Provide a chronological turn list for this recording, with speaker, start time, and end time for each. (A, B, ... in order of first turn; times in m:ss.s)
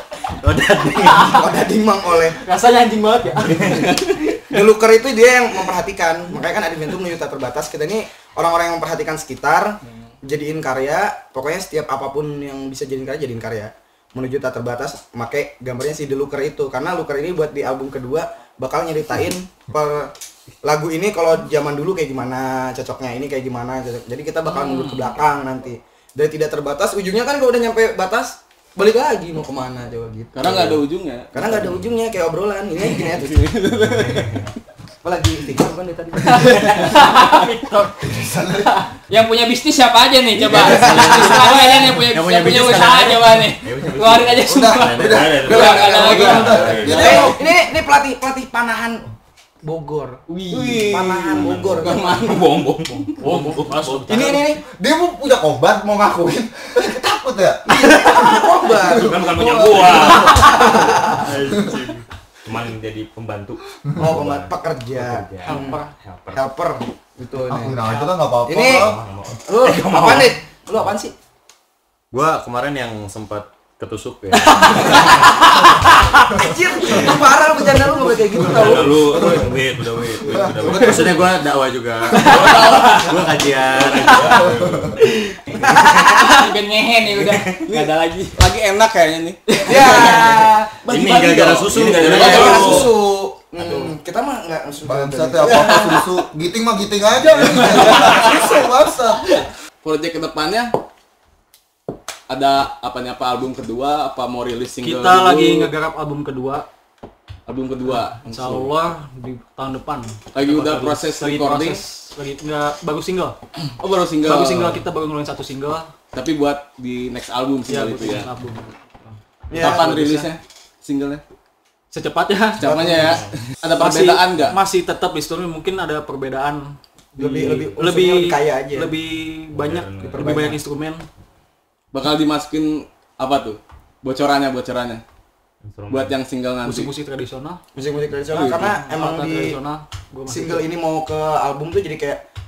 0:00.5-0:01.2 A
0:00.5-0:01.4 B
0:01.1-0:02.4 C
0:02.4-0:04.2 B
0:04.5-0:20.1 C
0:20.6-0:33.6 C
0:24.5-0:25.1 B
0:30.3-0:31.8 D
0:32.9-0:34.5 D
0:34.0-0:34.4 A
0:35.0-0:36.9 C
0:36.3-0:37.9 B
0:36.7-0:37.5 E
0:38.0-0:38.7 F
0:39.1-0:47.3 E
0:40.5-0:41.5 C
0:40.6-0:41.5 A
0:40.9-0:43.3 B
0:42.1-0:47.4 A
0:44.5-0:47.4 F
0:45.4-0:46.9 D
0:46.9-0:49.0 C
0:49.6-0:52.4 C
0:50.5-0:53.2 D
0:51.3-0:52.0 A
0:53.2-0:54.5 B
0:53.2-0:54.3 A
0:54.1-0:54.6 C
0:54.6-1:00.7 F
0:57.7-0:59.3 C
0:58.9-1:00.6 B
0:59.7-1:00.2 A
1:00.5-1:01.2 C
1:01.2-1:06.4 A
1:01.5-1:01.8 F
1:04.0-1:05.8 C
1:05.4-1:05.9 B
1:06.3-1:07.8 C
1:07.5-1:09.1 F
1:07.8-1:08.2 B
1:08.4-1:09.0 C
1:08.6-1:10.4 A
1:09.5-1:11.1 C
1:12.1-1:15.2 A
1:14.3-1:16.3 B
1:16.4-1:19.3 C
1:16.8-1:21.0 F
1:18.3-1:25.0 A
1:20.6-1:21.3 C
1:22.2-1:22.9 B
1:24.3-1:25.0 F
1:25.6-1:26.1 C
1:26.0-1:28.4 E
1:27.3-1:27.6 A
1:27.7-1:30.2 D
1:29.6-1:30.3 B
1:29.6-1:30.8 C
1:29.7-1:30.4 E
1:30.8-1:33.0 A
1:30.9-1:33.0 D
1:31.8-1:35.9 C
1:32.2-1:32.8 E
1:34.8-1:39.2 F
1:37.2-1:38.3 D
1:39.8-1:40.7 D
1:42.3-1:45.7 D
1:44.8-1:46.6 B
1:47.5-1:48.7 D
1:47.9-1:53.4 B
1:50.3-1:51.8 D
1:53.8-1:54.8 D
1:54.2-1:55.9 B
1:56.1-1:58.3 D
1:57.7-2:00.3 B
1:59.5-1:59.9 C
1:59.6-2:01.2 D
2:01.9-2:03.0 B
2:02.6-2:03.2 C
2:02.6-2:04.6 D
2:03.8-2:11.0 B
2:07.2-2:08.9 C
2:09.5-2:10.4 A
2:10.1-2:10.6 C
2:11.9-2:15.0 D
2:15.6-2:16.1 A
2:15.9-2:16.9 D
2:16.6-2:17.6 B
2:17.8-2:19.6 C
2:18.3-2:18.8 D
2:18.3-2:20.7 B
2:20.3-2:22.2 C